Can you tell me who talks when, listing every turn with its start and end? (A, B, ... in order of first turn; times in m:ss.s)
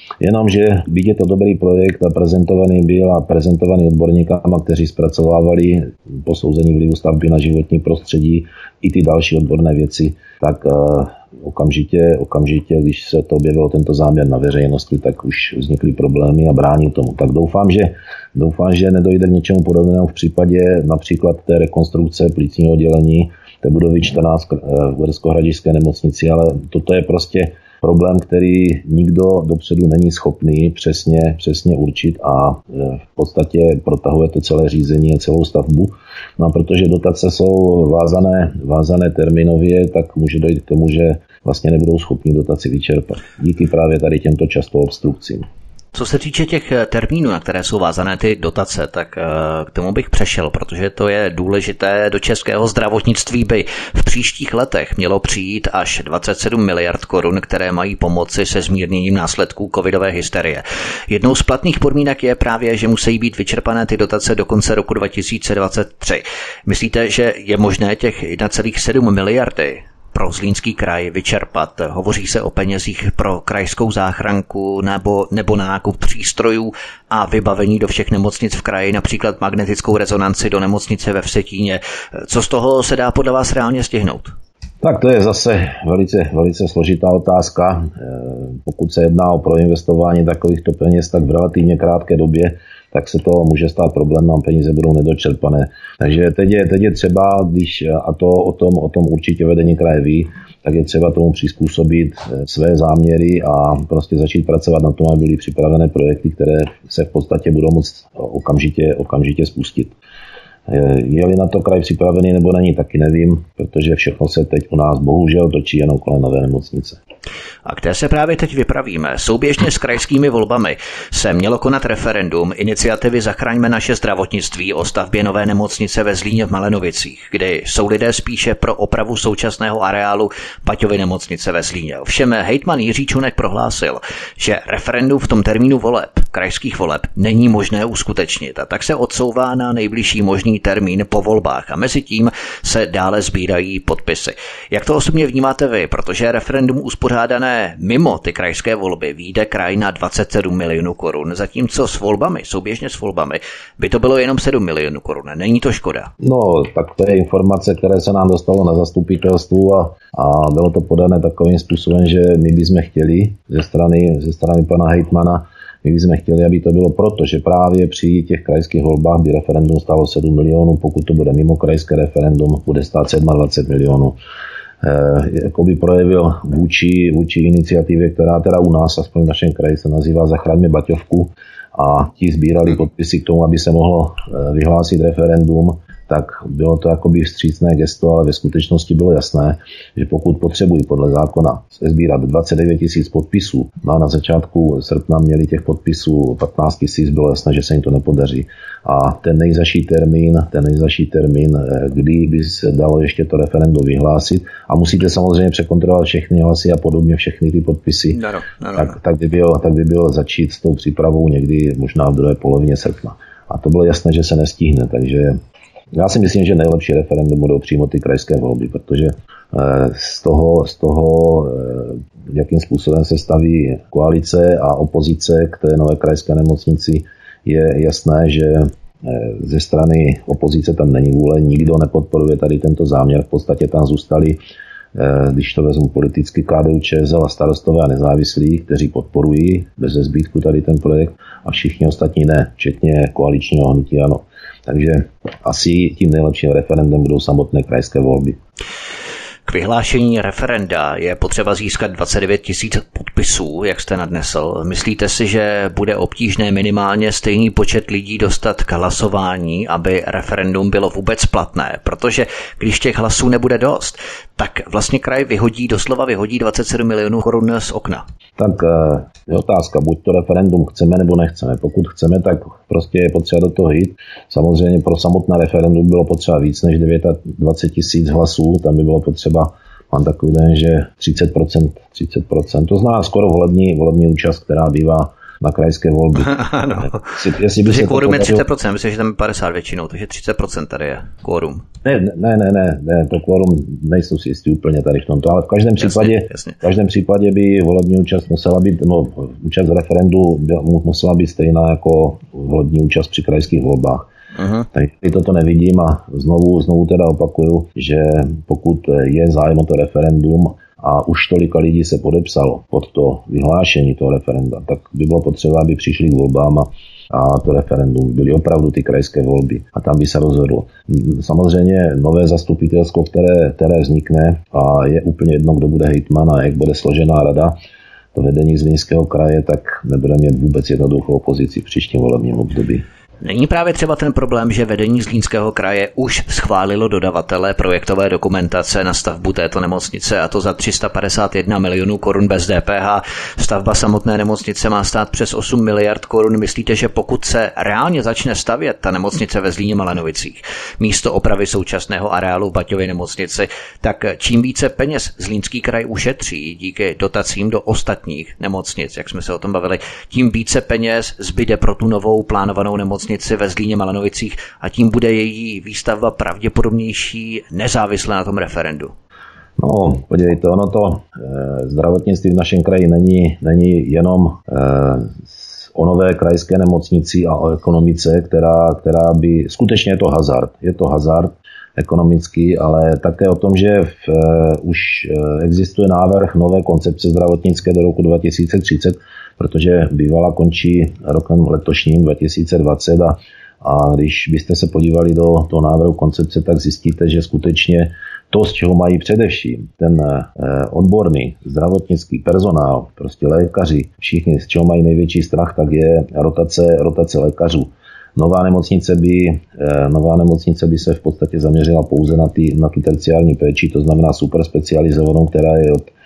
0:00.2-0:45.4 A
0:45.9-1:24.3 B
1:24.8-1:50.0 A
1:50.7-1:57.0 A
1:57.6-2:36.1 B
2:36.2-2:54.2 A
2:54.8-3:28.2 A
3:28.1-3:29.0 B
3:28.8-3:35.4 A
3:35.9-3:54.4 A
3:55.0-4:08.4 A
4:09.5-4:28.0 B
4:28.4-4:48.4 A
4:46.2-4:51.6 B
4:51.8-5:04.1 A
4:55.8-4:56.6 B
5:04.4-5:04.7 B
5:04.7-5:27.6 A
5:28.2-5:32.8 A
5:33.2-6:08.9 B
6:09.6-6:55.9 A